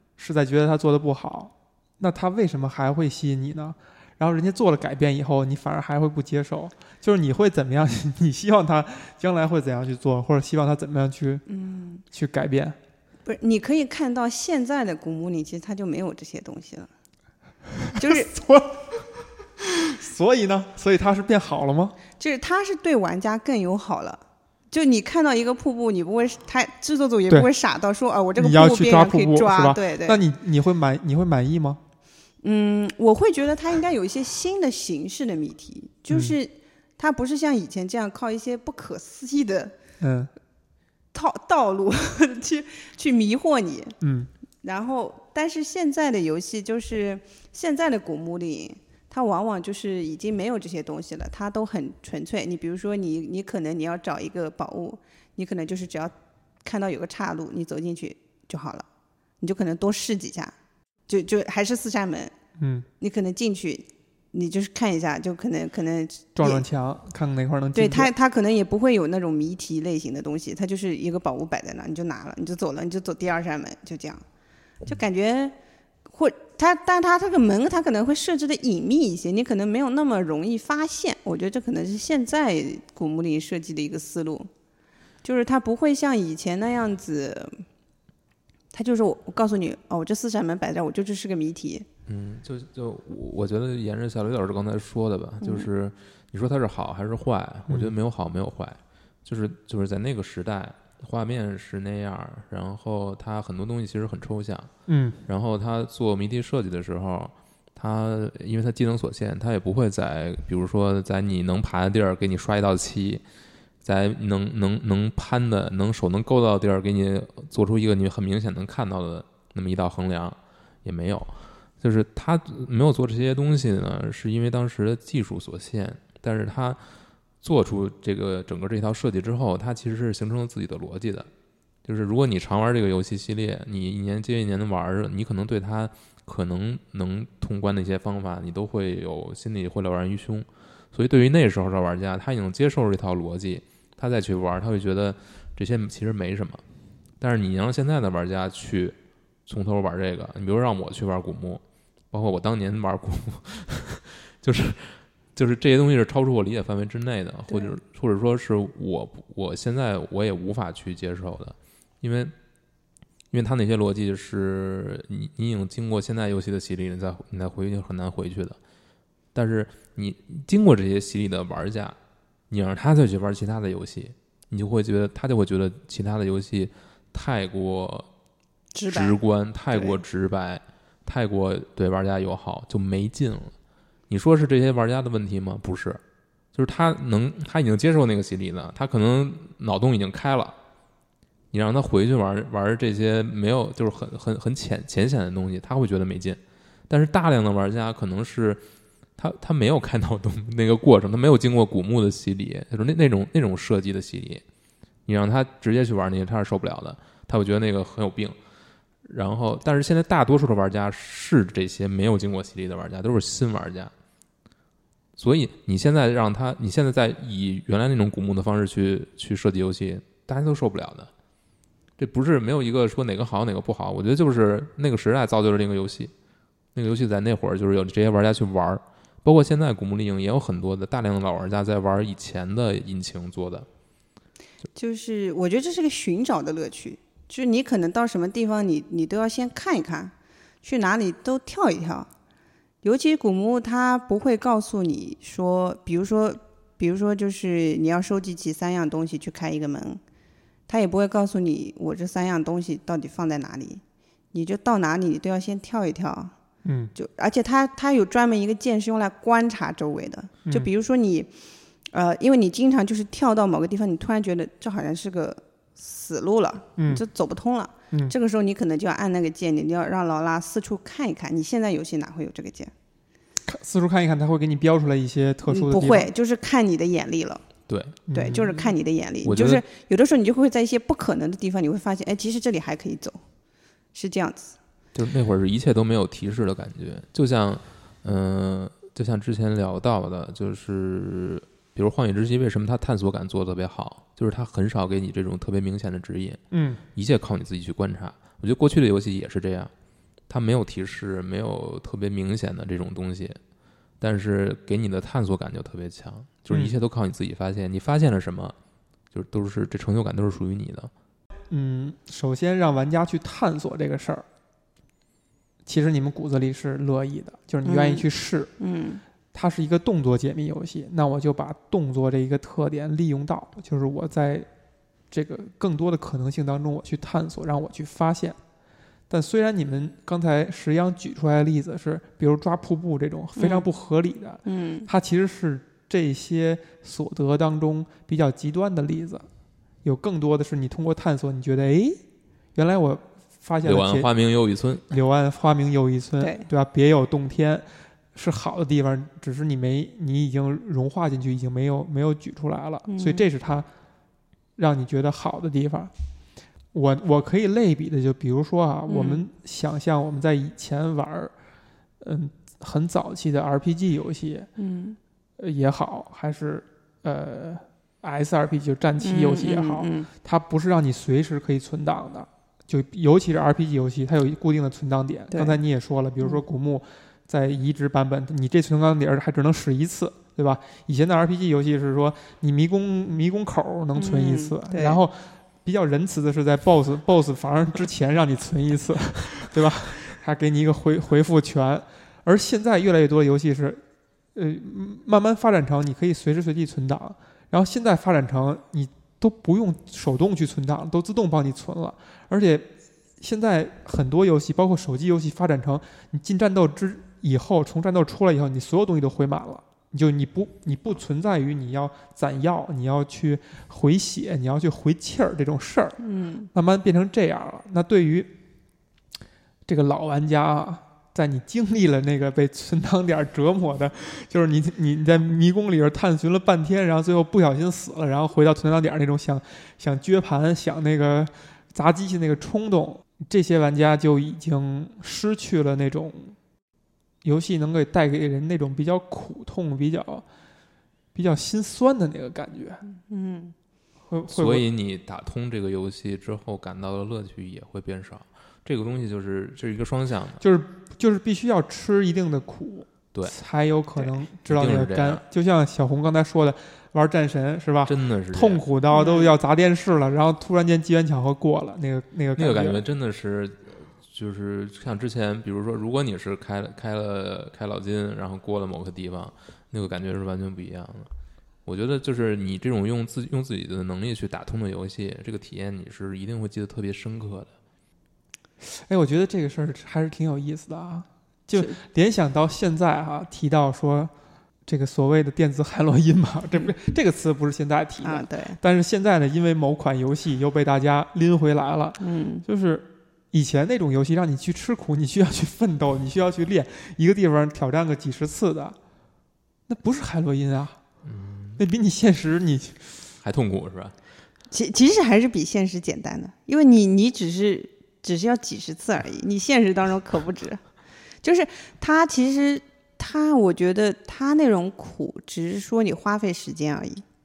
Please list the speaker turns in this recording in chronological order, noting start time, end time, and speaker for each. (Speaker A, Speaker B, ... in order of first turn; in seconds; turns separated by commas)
Speaker A: 0.2-11.4, Speaker B: 11.5-12.0, Speaker A: 12.1-12.8, Speaker B: 13.2-16.9, Speaker A: 17.8-21.9, Speaker B: 17.9-18.3, Speaker B: 22.2-30.2, Speaker A: 28.4-31.8, Speaker B: 32.4-39.8, Speaker A: 36.1-36.4, Speaker A: 40.0-40.3, Speaker B: 41.1-44.0, Speaker A: 44.0-44.3, Speaker B: 44.6-56.1, Speaker B: 56.6-58.9, Speaker B: 59.4-60.5, Speaker B: 61.1-62.3, Speaker A: 62.6-62.9, Speaker B: 63.0-66.6, Speaker A: 66.3-68.1, Speaker B: 67.7-74.2, Speaker B: 74.8-75.5, Speaker B: 76.1-84.5, Speaker B: 85.2-87.6, Speaker B: 88.7-91.8, Speaker C: 92.1-104.7, Speaker B: 95.4-95.7, Speaker A: 104.9-105.2, Speaker C: 105.3-113.2, Speaker C: 113.8-126.8, Speaker C: 127.4-131.3, Speaker C: 131.8-146.6, Speaker C: 147.2-148.9, Speaker C: 149.5-162.3, Speaker B: 157.5-157.8, Speaker C: 163.3-168.6, Speaker C: 169.3-171.9, Speaker C: 172.5-178.1, Speaker B: 178.7-179.2, Speaker C: 178.9-183.5, Speaker B: 179.7-180.0, Speaker C: 184.1-186.0, Speaker C: 186.5-190.5, Speaker C: 191.5-198.6, Speaker C: 199.2-204.4, Speaker C: 205.1-208.3, Speaker C: 209.1-213.9, Speaker C: 215.2-221.1, Speaker C: 222.0-226.1, Speaker C: 226.7-233.7, Speaker B: 234.8-242.1, Speaker B: 242.8-250.0, Speaker B: 250.7-253.8, Speaker B: 254.3-256.3, Speaker A: 256.6-256.9, Speaker B: 256.9-261.3, Speaker B: 261.9-272.7, Speaker A: 266.8-267.0, Speaker A: 273.4-276.1, Speaker B: 275.5-277.4, Speaker C: 277.7-278.1, Speaker A: 278.1-278.6, Speaker B: 278.1-283.2, Speaker C: 279.2-279.6, Speaker B: 283.9-284.6, Speaker C: 284.9-296.4, Speaker A: 296.5-296.8, Speaker C: 296.9-299.7, Speaker C: 300.3-303.4, Speaker C: 304.0-308.5, Speaker A: 306.5-306.8, Speaker C: 309.1-310.9, Speaker A: 311.5-314.2, Speaker A: 315.6-318.5, Speaker B: 317.6-319.0, Speaker A: 319.3-324.5, Speaker A: 325.1-328.4, Speaker A: 329.1-339.2, Speaker B: 333.4-333.7, Speaker B: 334.4-334.9, Speaker A: 339.8-342.0, Speaker A: 342.5-344.1, Speaker C: 343.6-344.9, Speaker A: 344.9-353.7, Speaker B: 346.2-346.5, Speaker B: 352.9-353.3, Speaker A: 354.6-355.9, Speaker A: 356.7-361.3, Speaker B: 358.9-359.2, Speaker A: 362.0-364.5, Speaker B: 364.6-365.0, Speaker A: 365.4-393.8, Speaker B: 369.0-370.1, Speaker B: 375.3-375.6, Speaker B: 383.9-385.0, Speaker A: 394.3-416.0, Speaker B: 416.0-416.5, Speaker A: 416.5-418.4, Speaker A: 419.6-436.4, Speaker A: 437.2-440.2, Speaker A: 441.1-442.8, Speaker B: 442.8-443.5, Speaker A: 444.1-444.6, Speaker C: 444.3-450.4, Speaker A: 450.4-462.8, Speaker C: 453.9-455.2, Speaker C: 457.9-458.6, Speaker B: 458.9-459.4, Speaker C: 462.4-471.1, Speaker C: 471.6-477.5, Speaker A: 478.6-484.1, Speaker A: 484.6-498.8, Speaker B: 488.0-488.6, Speaker B: 492.0-492.4, Speaker A: 499.7-500.8, Speaker C: 501.0-501.6, Speaker A: 501.6-502.9, Speaker C: 503.2-503.9, Speaker B: 504.5-510.6, Speaker B: 511.2-517.0